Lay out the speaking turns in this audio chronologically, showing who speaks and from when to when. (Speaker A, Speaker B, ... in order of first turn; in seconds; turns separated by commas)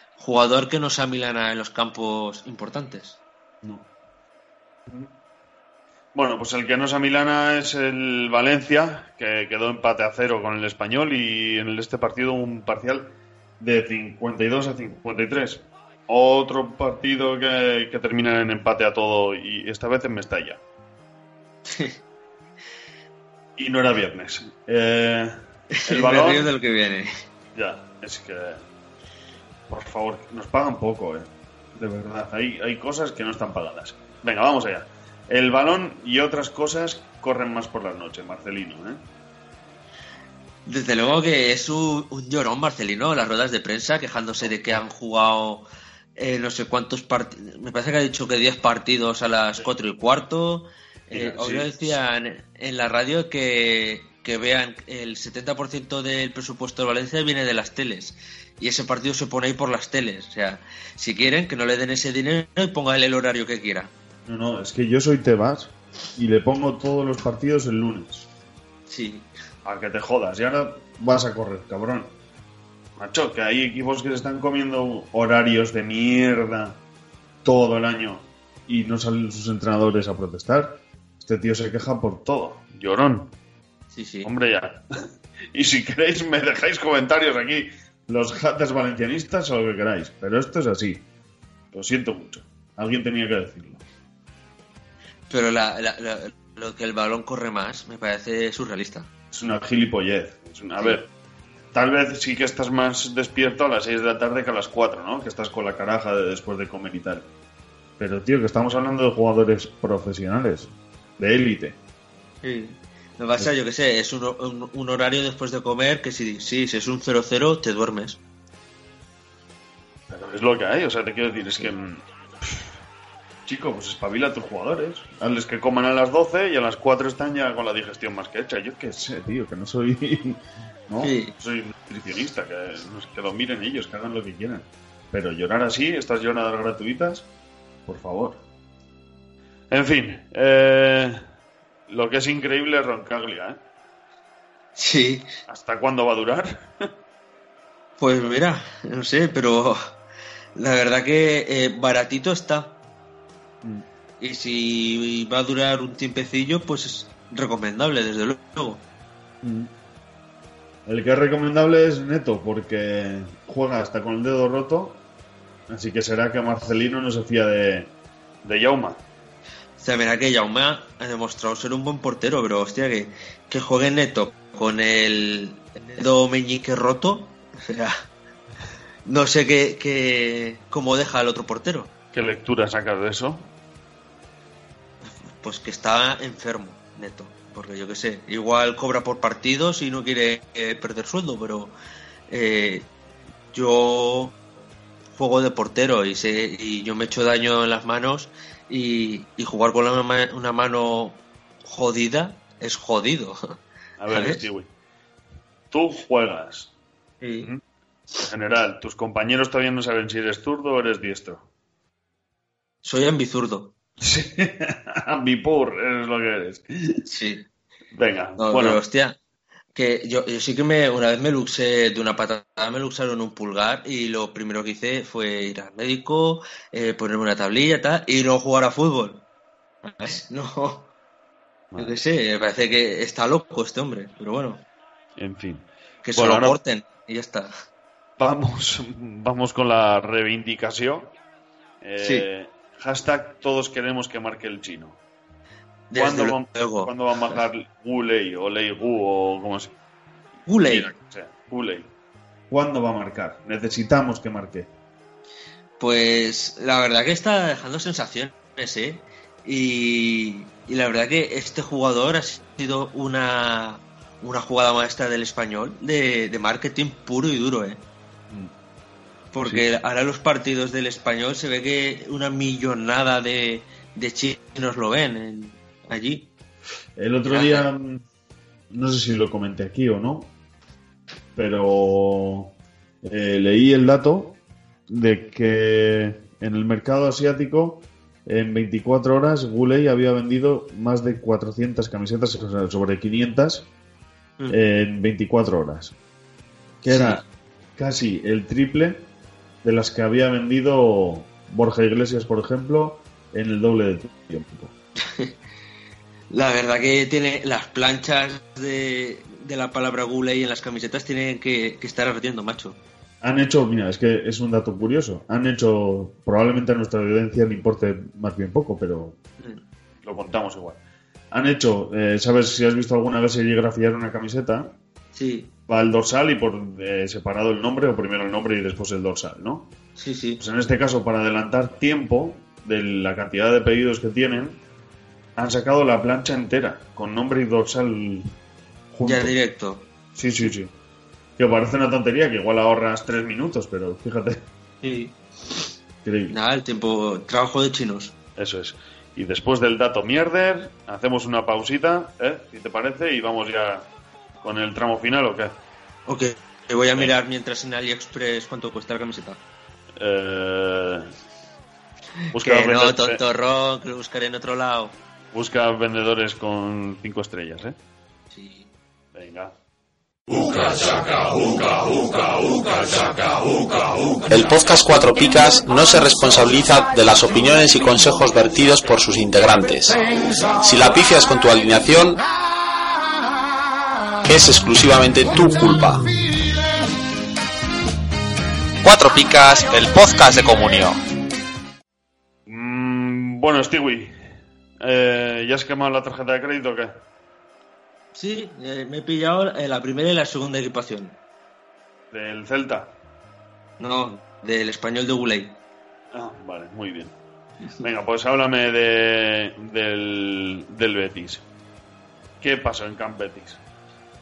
Speaker A: 0.2-3.2, Speaker B: 3.6-3.9, Speaker B: 6.1-20.6, Speaker A: 21.6-22.0, Speaker B: 23.6-26.5, Speaker A: 25.7-27.1, Speaker B: 27.6-28.6, Speaker B: 29.7-39.0, Speaker A: 40.6-63.9, Speaker B: 51.1-51.7, Speaker B: 64.2-68.3, Speaker A: 68.9-69.3, Speaker B: 69.6-72.1, Speaker B: 73.0-76.8, Speaker B: 77.4-83.3, Speaker A: 83.9-84.3, Speaker B: 84.2-84.9, Speaker B: 85.5-91.1, Speaker B: 91.7-93.8, Speaker A: 95.3-99.1, Speaker B: 99.3-101.1, Speaker B: 101.7-107.3, Speaker B: 108.0-111.8, Speaker A: 112.4-118.2, Speaker B: 120.1-122.7, Speaker B: 123.4-137.3, Speaker A: 131.0-131.3, Speaker B: 137.9-138.4, Speaker B: 139.7-141.2, Speaker B: 141.9-143.6, Speaker A: 144.8-145.3, Speaker B: 145.5-146.7, Speaker A: 148.0-149.9, Speaker A: 150.6-152.8, Speaker A: 154.2-158.8, Speaker B: 159.4-159.7, Speaker B: 160.9-165.0, Speaker B: 165.7-169.0, Speaker A: 169.8-177.9, Speaker A: 179.1-181.9, Speaker B: 182.1-183.5, Speaker A: 185.4-191.7, Speaker A: 192.3-192.9, Speaker A: 193.5-194.4, Speaker A: 195.1-203.4, Speaker B: 204.0-204.7, Speaker A: 204.1-204.4, Speaker B: 205.7-206.7, Speaker A: 207.2-207.5, Speaker B: 208.2-211.4, Speaker A: 212.8-213.7, Speaker B: 214.0-217.0, Speaker A: 217.1-217.5, Speaker B: 217.9-218.8, Speaker A: 218.4-219.2, Speaker A: 219.7-229.2, Speaker A: 229.8-230.9, Speaker B: 231.7-232.0, Speaker A: 231.8-234.6, Speaker B: 235.2-236.6, Speaker A: 236.1-237.5, Speaker B: 238.2-241.1, Speaker B: 241.8-245.0, Speaker A: 242.0-242.2, Speaker A: 245.9-247.4, Speaker B: 245.9-249.7, Speaker A: 250.5-250.9, Speaker B: 250.7-251.9, Speaker B: 252.5-254.7, Speaker A: 255.8-267.8, Speaker A: 269.3-276.3, Speaker B: 276.9-278.0, Speaker A: 277.3-277.7, Speaker B: 278.7-280.3, Speaker B: 281.4-284.4, Speaker B: 284.9-293.7, Speaker B: 294.5-295.9, Speaker B: 296.8-297.2, Speaker A: 296.9-297.2, Speaker B: 297.8-299.1, Speaker B: 299.6-304.7, Speaker A: 305.1-305.3, Speaker A: 306.3-312.8, Speaker B: 313.2-319.2, Speaker B: 320.0-320.8, Speaker B: 321.3-324.8, Speaker A: 325.1-325.5, Speaker B: 325.7-329.7, Speaker A: 330.0-330.4, Speaker B: 330.4-334.6, Speaker B: 335.4-338.3, Speaker B: 338.9-339.4, Speaker A: 339.1-339.9, Speaker B: 340.1-340.7, Speaker B: 341.4-344.4, Speaker A: 344.8-345.2, Speaker B: 346.0-346.4, Speaker A: 346.3-348.1, Speaker B: 348.4-353.9, Speaker B: 354.4-355.6, Speaker A: 356.1-359.4, Speaker B: 359.9-361.1, Speaker A: 362.3-365.0, Speaker B: 362.3-363.2, Speaker B: 365.3-367.8, Speaker A: 368.3-368.7, Speaker B: 369.1-369.6, Speaker B: 370.6-371.0, Speaker C: 374.3-380.0, Speaker C: 380.6-382.2, Speaker C: 384.2-386.1, Speaker C: 388.8-391.0, Speaker B: 392.4-394.1, Speaker B: 394.8-397.0, Speaker A: 398.1-401.2, Speaker B: 402.1-402.9, Speaker A: 403.8-405.6, Speaker B: 406.1-407.1, Speaker B: 407.8-411.4, Speaker B: 412.4-413.6